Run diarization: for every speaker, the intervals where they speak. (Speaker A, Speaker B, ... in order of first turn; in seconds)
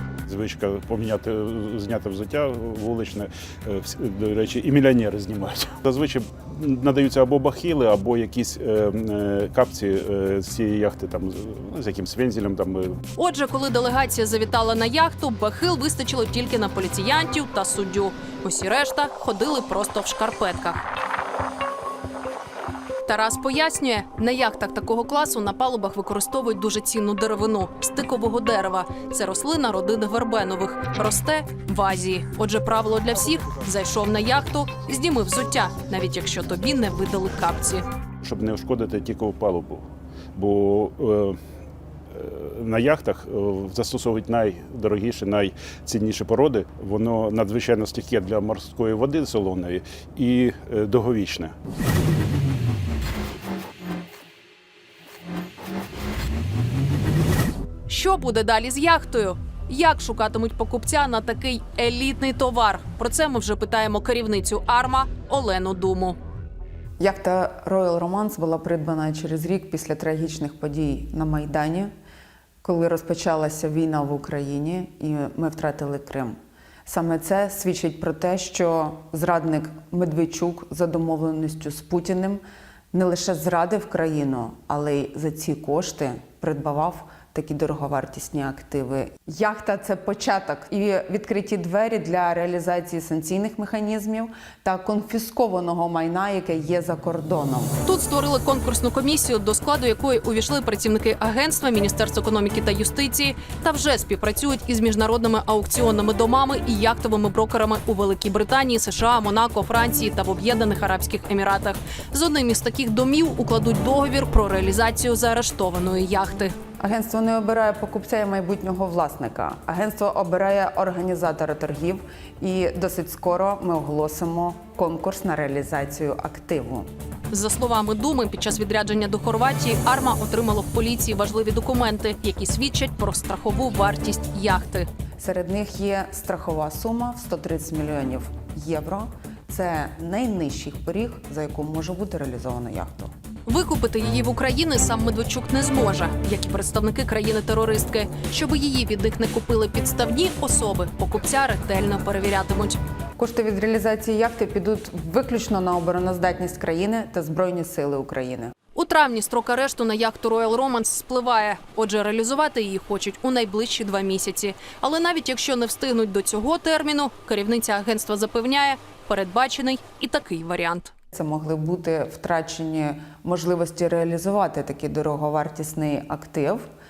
Speaker A: 0.3-13.0, 38.2-41.4, 42.1-51.5
Speaker B: 13.2-20.8, 23.1-37.8, 57.9-66.2, 97.8-116.5, 127.3-134.9, 143.5-152.8, 158.7-170.9
Speaker C: 67.0-71.9, 72.6-76.3, 76.8-97.8, 116.8-126.9, 135.2-143.1, 153.2-158.5, 171.1-176.6